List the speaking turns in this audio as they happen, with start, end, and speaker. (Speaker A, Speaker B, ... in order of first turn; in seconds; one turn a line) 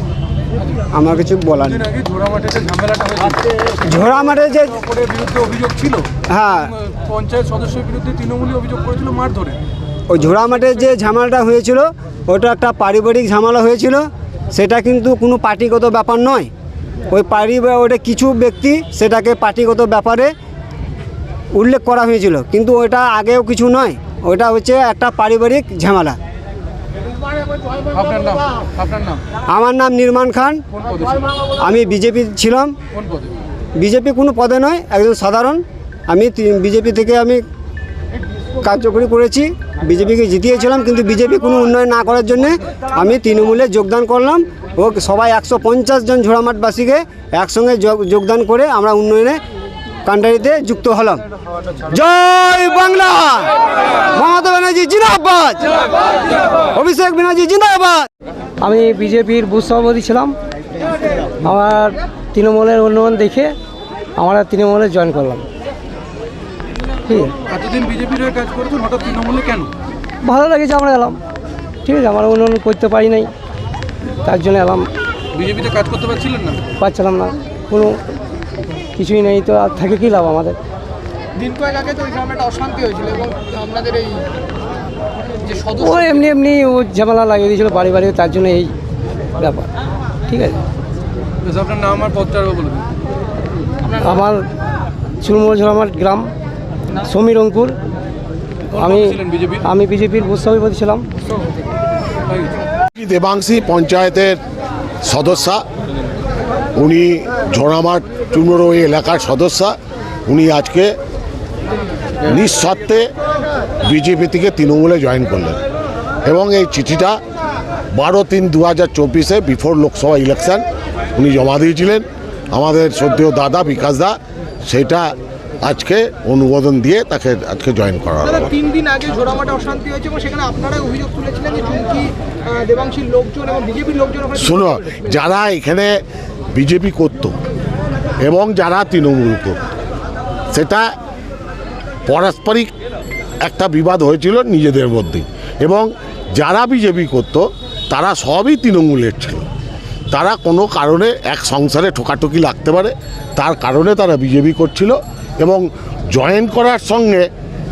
Speaker A: 0.9-1.9
Speaker B: 1.9-3.4
Speaker A: 3.9-4.7
Speaker B: 4.9-6.0
Speaker A: 6.3-6.7
Speaker B: 6.9-9.6
Speaker A: 10.1-16.5
Speaker A: 17.1-20.3
Speaker A: 21.5-26.2
Speaker B: 27.9-29.2
Speaker A: 29.5-30.6
Speaker B: 30.8-31.2
Speaker A: 31.6-32.7
Speaker A: 33.8-37.4
Speaker A: 38.6-49.4
Speaker A: 50.0-51.2
Speaker A: 51.9-53.5
Speaker A: 54.1-55.8
Speaker A: 56.7-58.1
Speaker C: 58.6-60.3
Speaker C: 61.4-63.5
Speaker C: 64.2-65.5
Speaker C: 67.1-67.3
Speaker B: 67.5-69.7
Speaker C: 70.2-71.2
Speaker C: 71.8-73.3
Speaker C: 74.2-74.9
Speaker B: 75.3-76.7
Speaker C: 76.8-78.0
Speaker C: 79.0-80.6
Speaker D: 81.4-84.2
Speaker D: 85.5-86.3
Speaker C: 85.8-88.7
Speaker C: 89.4-89.7
Speaker C: 90.3-90.6
Speaker B: 91.4-92.8
Speaker C: 93.9-94.5
Speaker C: 95.2-96.3
Speaker C: 97.0-97.7
Speaker B: 98.7-99.6
Speaker C: 98.8-101.0
Speaker E: 103.0-104.4
Speaker E: 105.0-105.6
Speaker E: 106.8-109.8
Speaker E: 110.3-110.9
Speaker E: 112.2-113.1
Speaker E: 113.8-115.6
Speaker E: 116.2-117.2
Speaker E: 117.9-128.6
Speaker D: 128.5-134.7
Speaker E: 134.3-135.9
Speaker E: 136.5-137.3
Speaker E: 138.2-139.6
Speaker E: 140.5-140.9
Speaker E: 142.1-142.7
Speaker E: 143.4-149.4
Speaker E: 150.1-157.3